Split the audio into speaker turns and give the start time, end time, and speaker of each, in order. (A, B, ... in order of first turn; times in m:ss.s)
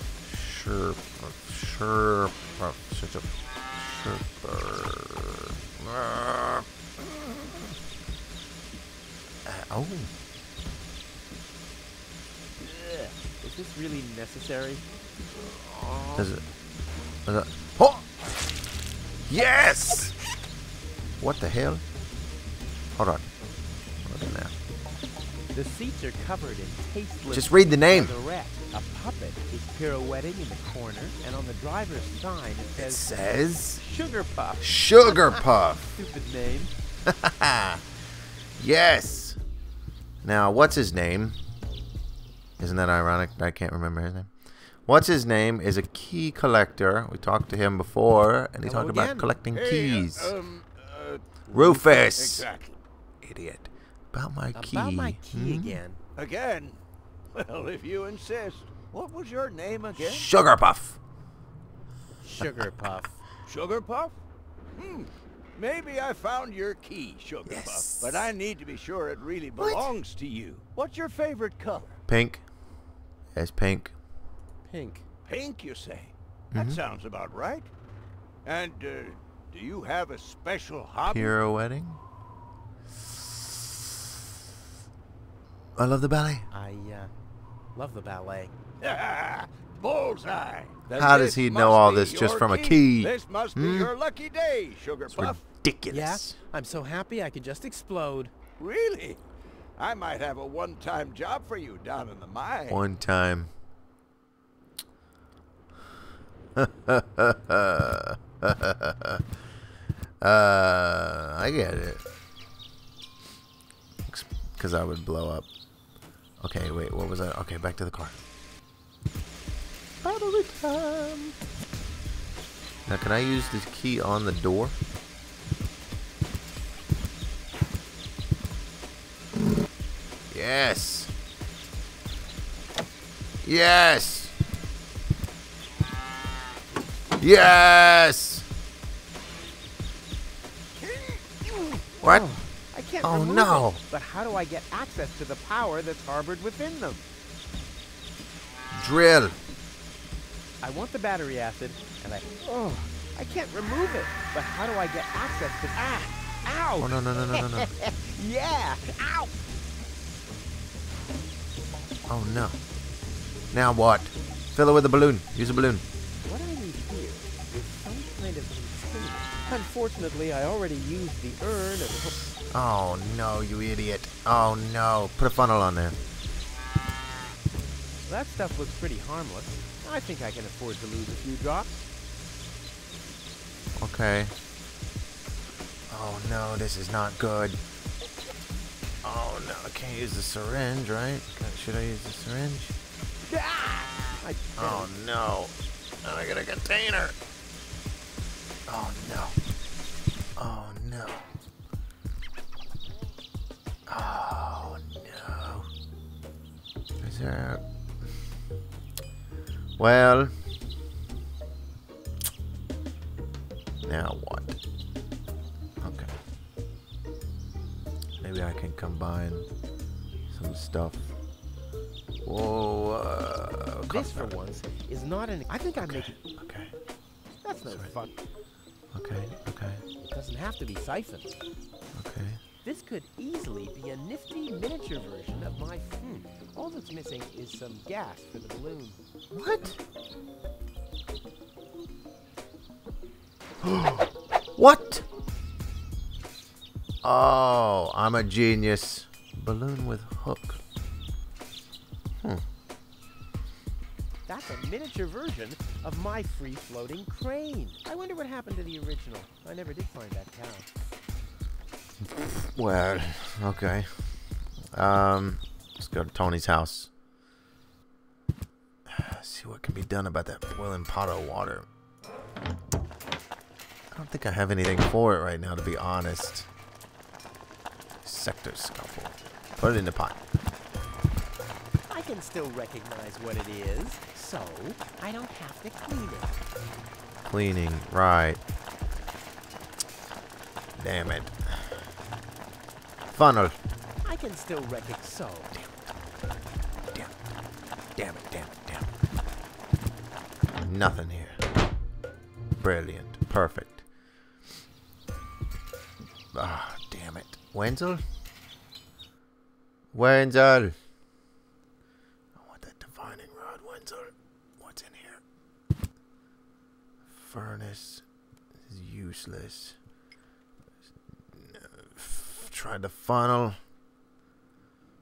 0:00.2-0:07.6 A
0:09.4-0:10.1 A
0:13.4-0:14.8 B
0:15.6-0:16.3 B
0:16.2-0:16.4 A
0:17.2-0:18.0 A
0:19.3-0:20.1 A
0:21.2-0:21.8 A
0:22.9-0:23.3 A
0:24.0-0:24.5 A
0:25.5-0:33.1 B
0:27.3-0:28.2 A
0:32.8-0:33.8 A
0:33.8-0:36.7 B
0:34.6-0:35.9 A
0:37.0-0:37.8 A
0:38.6-0:39.4 A
0:40.2-0:41.4 A
0:42.6-0:44.3 A
0:44.8-0:50.3 A
0:48.6-0:49.3 B
0:49.5-0:52.8 C
0:51.5-0:52.4 A
0:53.2-0:55.8 A
0:54.5-0:56.0 B
0:56.2-0:56.8 C
0:57.3-1:00.3 C
1:00.0-1:01.0 A
1:02.2-1:03.2 B
1:02.4-1:02.9 A
1:03.4-1:04.2 C
1:04.7-1:11.9 C
1:07.5-1:08.2 A
1:09.6-1:09.9 A
1:12.1-1:12.4 A
1:13.3-1:13.9 A
1:14.6-1:15.0 B
1:15.2-1:17.7 C
1:16.5-1:16.8 A
1:18.4-1:21.4 C
1:21.0-1:22.0 A
1:25.8-1:26.5 A
1:26.5-1:27.1 B
1:27.7-1:28.6 B
1:28.8-1:35.4 C
1:30.9-1:33.9 A
1:35.1-1:36.4 A
1:35.9-1:38.3 B
1:38.6-1:39.2 C
1:39.8-1:42.8 C
1:42.7-1:43.5 A
1:46.6-1:49.2 A
1:50.2-1:52.0 A
1:54.1-1:55.5 A
1:56.4-1:58.2 A
2:00.0-2:01.3 A
2:02.9-2:04.8 A
2:10.3-2:11.1 A
2:13.4-2:14.3 A
2:17.2-2:18.5 A
2:21.4-2:27.0 B
2:22.0-2:22.3 A
2:23.0-2:23.8 A
2:28.7-2:29.4 A
2:30.6-2:39.3 B
2:36.8-2:37.7 A
2:42.1-2:42.6 A
2:43.5-2:45.8 A
2:46.2-2:52.2 B
2:52.5-2:56.0 A
2:58.0-3:01.9 B
3:03.8-3:04.3 A
3:05.9-3:07.6 A
3:09.0-3:12.7 A
3:13.3-3:14.9 B
3:14.6-3:17.1 A
3:18.7-3:19.4 A
3:20.4-3:21.3 A
3:23.9-3:25.7 A
3:27.0-3:27.6 A
3:29.8-3:30.3 A
3:33.8-3:34.6 A
3:35.8-3:36.2 A
3:38.2-3:39.5 A
3:40.3-3:41.1 A
3:42.2-3:44.3 A
3:43.9-3:46.1 B
3:45.8-3:46.7 A
3:47.4-3:48.2 B
3:48.9-3:49.8 A
3:50.0-3:51.3 B
3:51.9-3:52.4 A
3:52.6-3:59.0 B
3:59.3-3:59.8 A
4:03.6-4:05.0 A
4:07.0-4:10.6 A
4:14.2-4:20.7 B
4:22.1-4:23.9 A
4:24.7-4:26.9 A
4:28.9-4:31.7 A
4:33.9-4:36.5 A
4:38.0-4:40.2 A
4:41.9-4:46.4 B
4:47.3-4:48.4 A
4:50.8-4:51.8 A
4:53.1-4:53.6 A
4:54.0-4:55.5 B
4:58.0-4:58.9 A
5:00.5-5:01.4 A
5:02.6-5:03.8 A
5:06.3-5:08.0 A
5:09.9-5:10.7 A
5:12.3-5:15.2 A
5:17.1-5:18.0 A
5:18.7-5:19.8 A
5:21.3-5:23.6 A